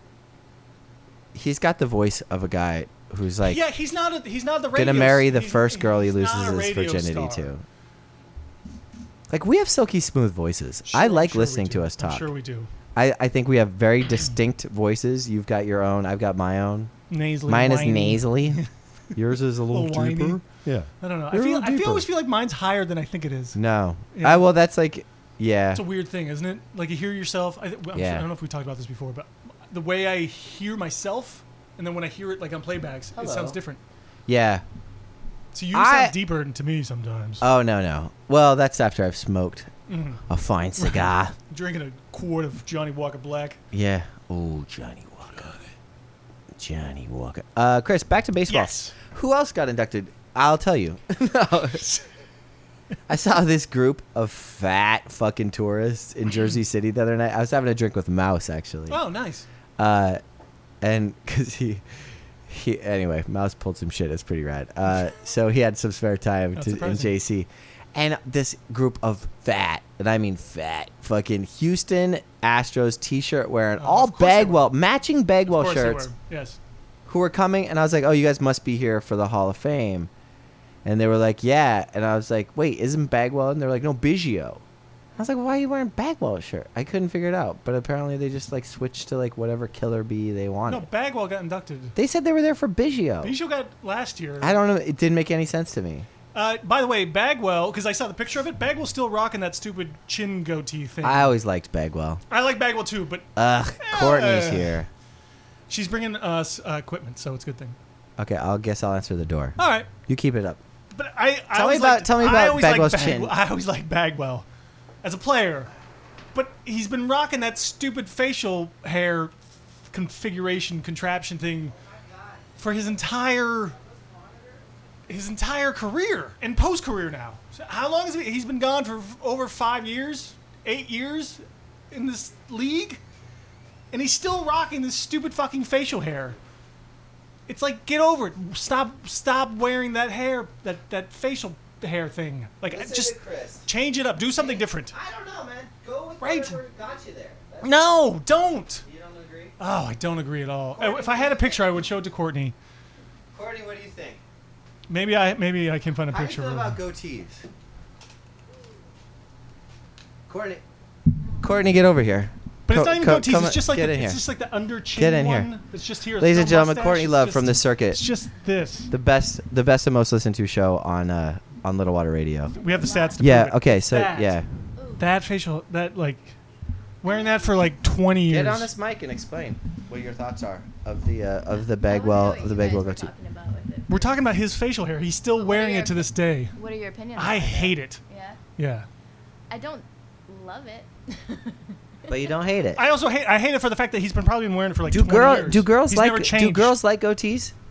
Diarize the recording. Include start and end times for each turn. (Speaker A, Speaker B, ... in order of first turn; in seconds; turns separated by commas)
Speaker A: 1.3-3.6, Speaker B: 3.4-7.5, Speaker A: 4.7-7.6, Speaker A: 9.3-12.3, Speaker B: 10.8-12.7, Speaker A: 12.9-16.9, Speaker B: 17.1-18.7, Speaker A: 17.5-18.6, Speaker A: 19.1-22.1, Speaker B: 19.7-20.4, Speaker B: 21.0-23.6, Speaker A: 23.5-25.8, Speaker B: 24.1-24.4, Speaker B: 25.7-33.8, Speaker A: 27.9-28.2, Speaker A: 33.1-33.6, Speaker A: 34.3-34.6, Speaker B: 35.5-37.4, Speaker A: 35.7-36.1, Speaker A: 37.4-39.7, Speaker B: 39.9-40.2, Speaker A: 40.3-41.3, Speaker B: 40.8-43.6, Speaker A: 43.7-45.5, Speaker A: 46.5-51.8, Speaker B: 48.5-48.9, Speaker A: 53.1-59.0, Speaker B: 58.9-59.5, Speaker A: 59.8-60.2, Speaker A: 60.8-61.8, Speaker A: 62.5-76.0, Speaker B: 66.5-67.1, Speaker B: 73.8-74.7, Speaker B: 75.5-76.6, Speaker A: 77.1-80.1, Speaker A: 80.8-84.6, Speaker A: 85.2-90.8, Speaker B: 90.7-92.0, Speaker A: 92.0-93.3, Speaker B: 93.2-94.6, Speaker A: 94.4-96.1, Speaker B: 96.3-101.3, Speaker A: 101.0-102.2, Speaker B: 102.3-103.3, Speaker A: 103.3-104.9, Speaker B: 103.8-104.8, Speaker B: 105.7-107.8, Speaker A: 108.2-110.6, Speaker B: 109.6-109.9, Speaker B: 110.9-114.4, Speaker A: 111.5-113.3, Speaker B: 115.0-115.7, Speaker B: 116.3-119.3, Speaker B: 119.9-121.8, Speaker B: 122.6-123.8, Speaker B: 125.1-133.0, Speaker B: 133.9-136.4, Speaker B: 137.5-144.9, Speaker A: 142.7-143.7, Speaker A: 144.4-148.0, Speaker B: 146.2-146.6, Speaker B: 147.6-148.8, Speaker A: 148.8-149.6, Speaker B: 149.6-152.5, Speaker A: 150.8-151.6, Speaker A: 153.3-154.2, Speaker B: 154.9-156.8, Speaker A: 156.1-157.4, Speaker A: 160.3-160.6, Speaker A: 161.4-164.2, Speaker B: 162.7-168.9, Speaker A: 164.9-165.5, Speaker A: 166.2-168.0, Speaker A: 168.9-172.5, Speaker C: 172.5-173.2, Speaker B: 172.5-174.4, Speaker A: 173.2-174.4, Speaker C: 174.8-175.1, Speaker B: 175.0-176.3, Speaker B: 177.0-178.7, Speaker C: 177.0-177.7, Speaker A: 178.3-183.1, Speaker C: 181.8-184.2, Speaker B: 183.9-186.6, Speaker C: 185.3-188.4, Speaker B: 187.1-188.0, Speaker B: 188.6-188.9, Speaker C: 189.5-192.3, Speaker A: 192.1-192.8, Speaker B: 192.7-196.8, Speaker A: 194.9-197.5